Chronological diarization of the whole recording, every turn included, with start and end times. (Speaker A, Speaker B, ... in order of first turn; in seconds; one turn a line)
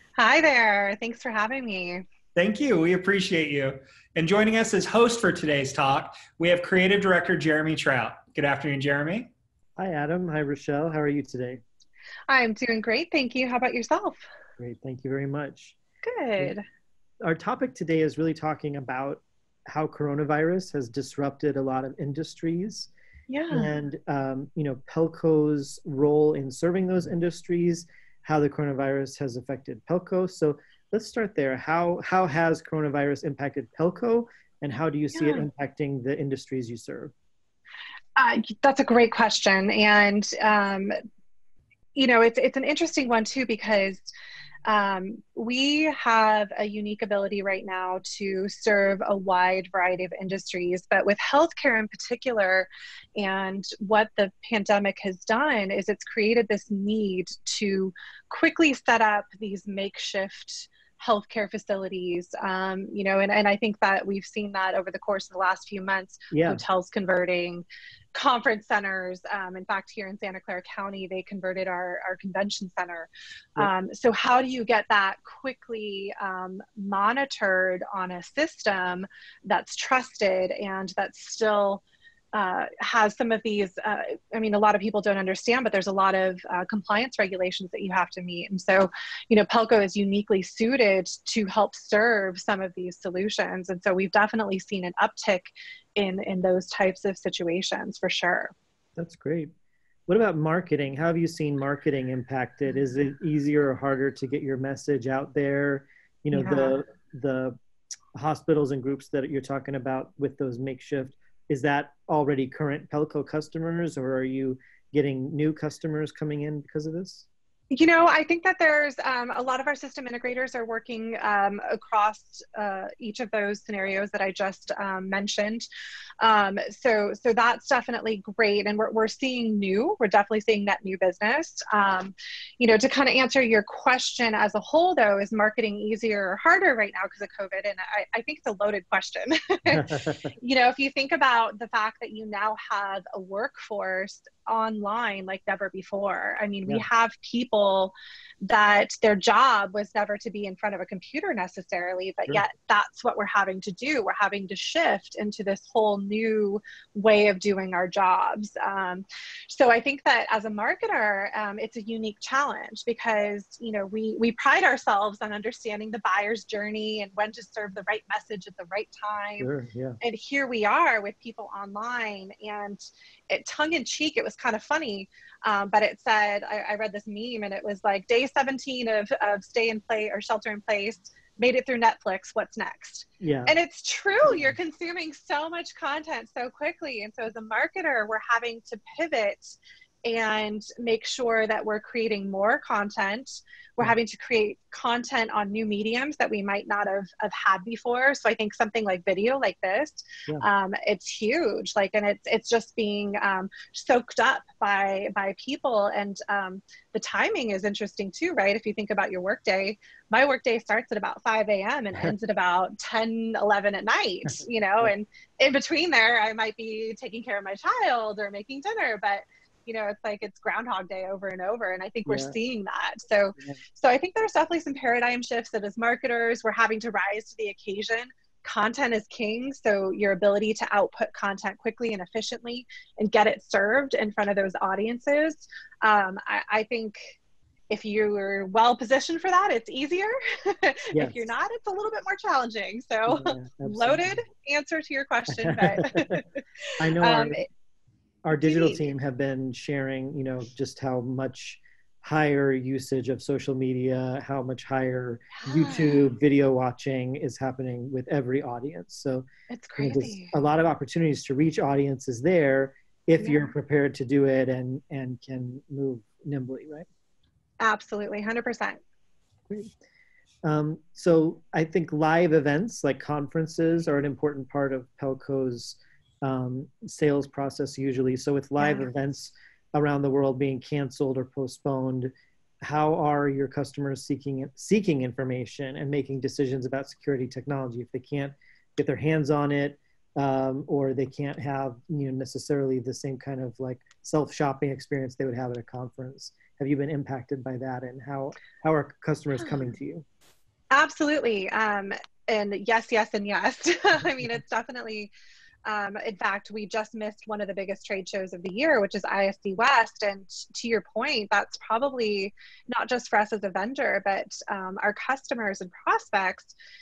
Speaker A: 0.2-2.0
Speaker B: 2.4-9.3
Speaker C: 9.8-11.6
Speaker A: 12.3-14.2
Speaker C: 14.6-15.8
Speaker A: 16.0-16.6
Speaker C: 17.2-22.9
Speaker A: 23.3-23.7
Speaker C: 23.5-37.1
Speaker A: 35.1-35.4
Speaker A: 38.1-41.0
Speaker A: 41.9-44.1
Speaker A: 44.6-81.8
Speaker C: 66.3-66.6
Speaker A: 82.3-98.5
Speaker C: 99.0-99.5
Speaker C: 100.1-107.6
Speaker A: 106.3-106.8
Speaker C: 108.1-117.2
Speaker A: 117.7-125.7
Speaker A: 126.2-169.5
Speaker C: 139.7-140.3
Speaker C: 169.4-170.0
Speaker A: 170.0-237.2
Speaker C: 183.2-183.5
Speaker C: 222.1-222.3
Speaker A: 237.7-247.4
Speaker C: 240.9-241.3
Speaker C: 243.1-244.2
Speaker C: 245.3-246.2
Speaker C: 246.8-247.4
Speaker C: 248.2-259.2
Speaker A: 248.5-248.8
Speaker A: 255.4-256.1
Speaker A: 259.5-260.3
Speaker C: 259.8-266.9
Speaker A: 263.2-263.5
Speaker A: 267.6-268.8
Speaker C: 269.5-269.8
Speaker C: 270.4-300.0
Speaker A: 278.6-278.9
Speaker A: 300.7-305.1
Speaker A: 305.6-316.5